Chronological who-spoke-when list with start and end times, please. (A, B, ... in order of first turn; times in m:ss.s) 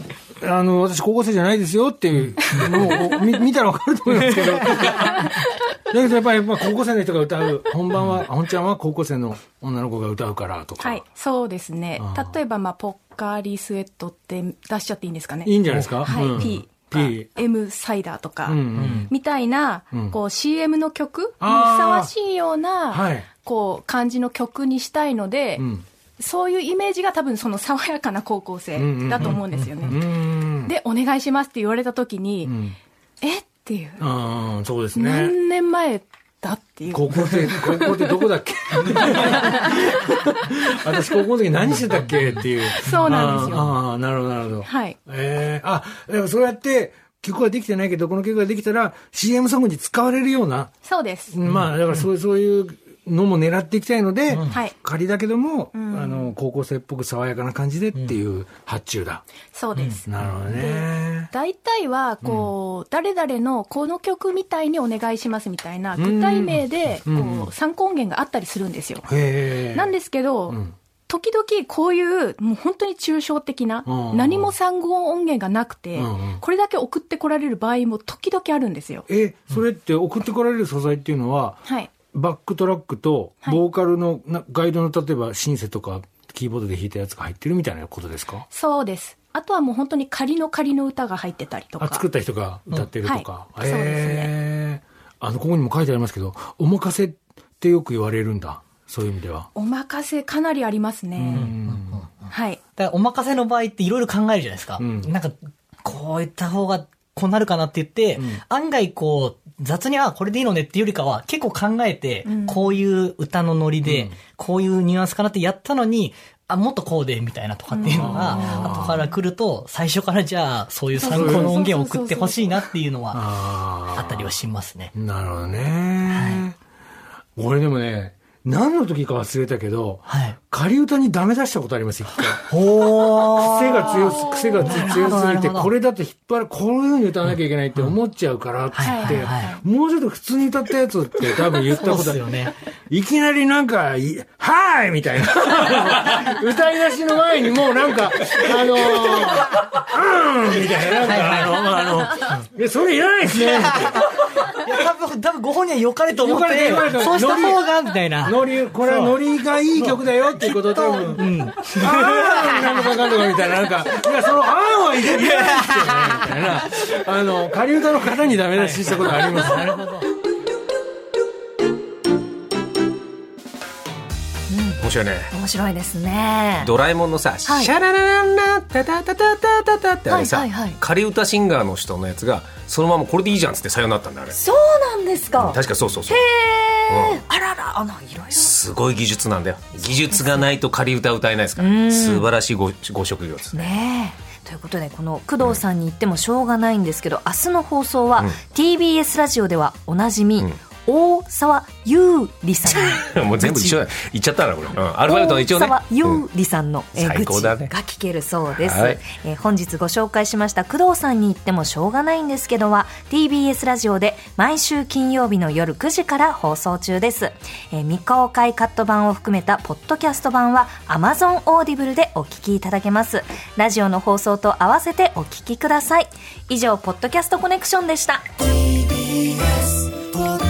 0:00.4-0:05.3 A
0:05.9-0:11.0 A
0:10.8-0:25.6 B
0:12.0-0:12.3 A
0:15.4-0:17.3 A
0:15.9-0:16.3 C
0:18.4-0:19.1 A
0:18.8-0:19.1 C
0:21.4-0:22.1 A
0:22.9-0:23.3 A
0:25.6-0:25.8 A
0:26.2-0:30.0 B
0:28.8-0:30.8 A
0:29.2-0:29.9 C
0:30.6-0:32.5 B
0:32.4-0:32.8 A
0:33.2-0:34.0 B
0:34.0-0:35.3 A
0:35.0-0:38.1 B
0:36.9-0:50.7 A
0:39.3-0:39.7 B
0:42.8-0:43.7 B
0:44.6-0:45.0 B
0:50.8-0:51.4 B
0:51.3-0:59.2 A
0:54.3-0:54.6 C
0:55.8-0:56.3 B
0:59.5-1:09.1 B
1:00.1-1:01.3 A
1:02.2-1:02.5 A
1:06.0-1:07.5 A
1:09.1-1:09.9 A
1:09.7-1:10.6 B
1:10.5-1:10.7 A
1:11.1-1:19.1 B
1:13.9-1:14.5 A
1:16.0-1:16.4 A
1:19.1-1:28.5 A
1:28.5-1:32.0 B
1:31.8-1:39.5 A
1:33.0-1:34.3 B
1:39.6-1:41.5 B
1:41.2-1:42.0 A
1:41.3-1:42.0 C
1:42.3-1:42.6 B
1:42.8-2:03.3 C
1:44.8-1:45.1 A
1:52.3-1:52.7 B
1:53.8-1:54.2 A
1:57.7-1:58.7 B
1:57.9-1:59.0 A
2:01.0-2:02.6 B
2:01.1-2:01.6 A
2:03.1-2:04.3 A
2:03.9-2:04.9 C
2:05.0-2:06.6 A
2:06.1-2:06.4 C
2:07.4-2:12.5 A
2:10.1-2:10.4 C
2:12.2-2:15.7 C
2:13.2-2:22.3 A
2:18.7-2:19.6 C
2:18.8-2:19.6 B
2:21.6-2:22.5 C
2:22.9-2:34.0 A
2:31.0-2:31.7 C
2:33.4-2:39.2 C
2:36.2-2:37.7 A
2:38.2-2:49.7 A
2:39.7-2:42.5 C
2:45.5-2:46.1 C
2:48.5-2:50.1 C
2:54.5-2:56.7 D
2:54.8-2:55.3 E
2:56.6-3:04.4 E
2:57.4-2:57.7 D
3:00.1-3:00.8 D
3:04.3-3:08.5 D
3:05.4-3:06.2 E
3:06.9-3:07.2 E
3:08.4-3:13.7 E
3:09.8-3:10.5 D
3:11.6-3:12.3 D
3:13.5-3:23.8 D
3:22.7-3:26.2 E
3:25.1-3:48.2 D
3:27.0-3:27.7 E
3:28.6-3:29.0 E